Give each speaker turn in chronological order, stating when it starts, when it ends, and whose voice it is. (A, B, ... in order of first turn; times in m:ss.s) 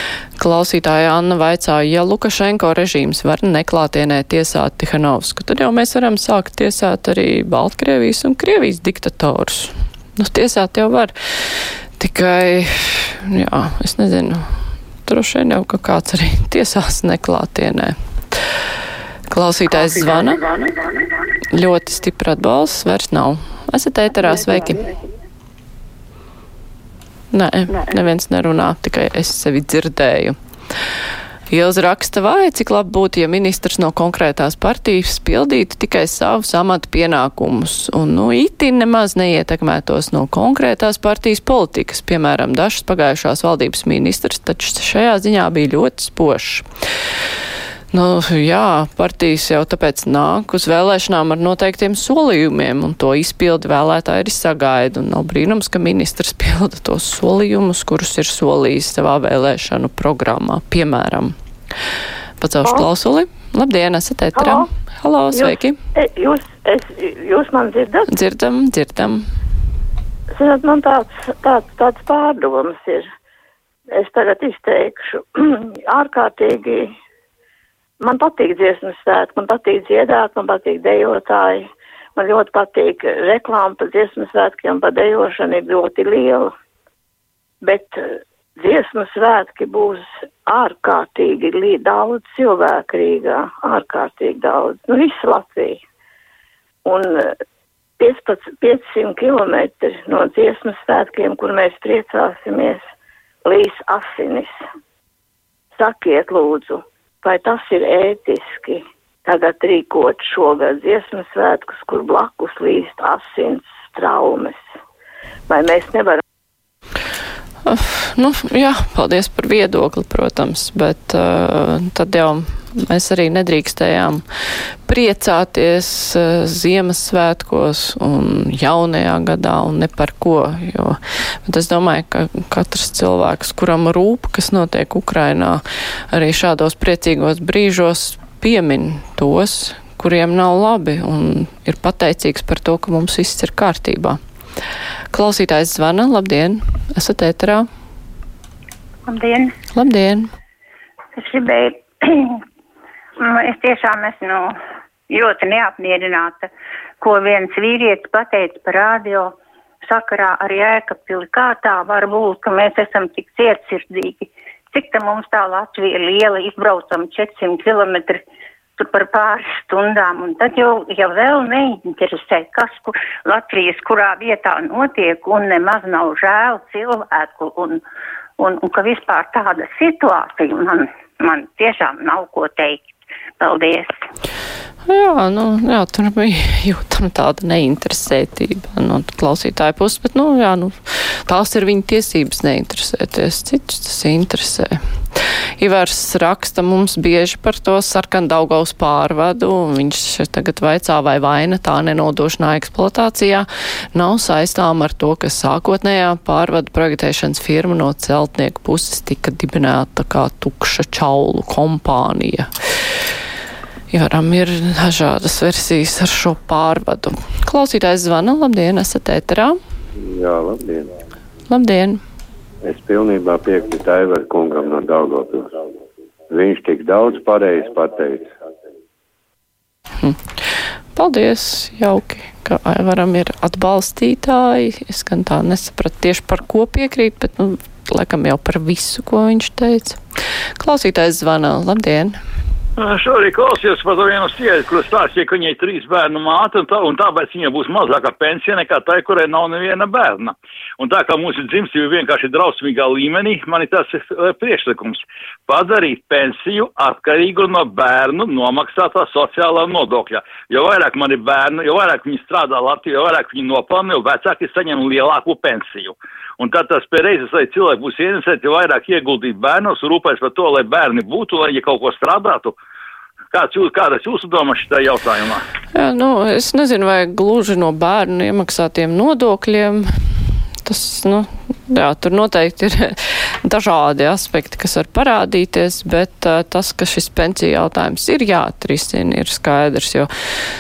0:00.4-0:14.4 A
0:15.0-0:18.0 A
0:19.3-0:20.5 A
0:21.5-0:24.8 A
0:27.3-0:30.4 A
0:31.5-0:46.6 A
0:47.9-1:01.4 A
1:02.4-1:05.8 A
1:04.4-1:04.6 B
1:05.3-1:08.1 B
1:08.1-1:09.2 A
1:10.4-1:13.1 B
1:13.9-1:16.9 B
1:18.0-1:26.5 B
1:27.6-1:28.0 B
1:28.6-1:35.8 B
1:36.8-1:37.3 B
1:38.0-1:42.9 B
1:43.4-1:44.5 B
1:45.8-1:54.6 B
1:55.5-1:56.2 B
1:57.7-2:04.2 A
2:04.9-2:24.2 A
2:25.1-2:27.7 A
2:29.1-2:29.5 C
2:29.7-2:30.3 A
2:31.2-2:32.4 C
2:33.2-2:34.6 C
2:35.1-2:36.5 C
2:37.0-2:48.2 C
2:48.8-2:57.8 C
2:58.4-3:04.0 C
3:04.9-3:32.5 A
3:33.9-3:39.6 A
3:40.0-3:40.9 D
3:41.5-3:42.0 A
3:42.6-3:45.5 D
3:46.3-3:48.3 D
3:51.0-4:00.0 A
4:00.6-4:02.2 A
4:02.8-4:32.5 E
4:33.3-4:35.4 E
4:35.8-4:39.9 A
4:40.6-4:50.1 A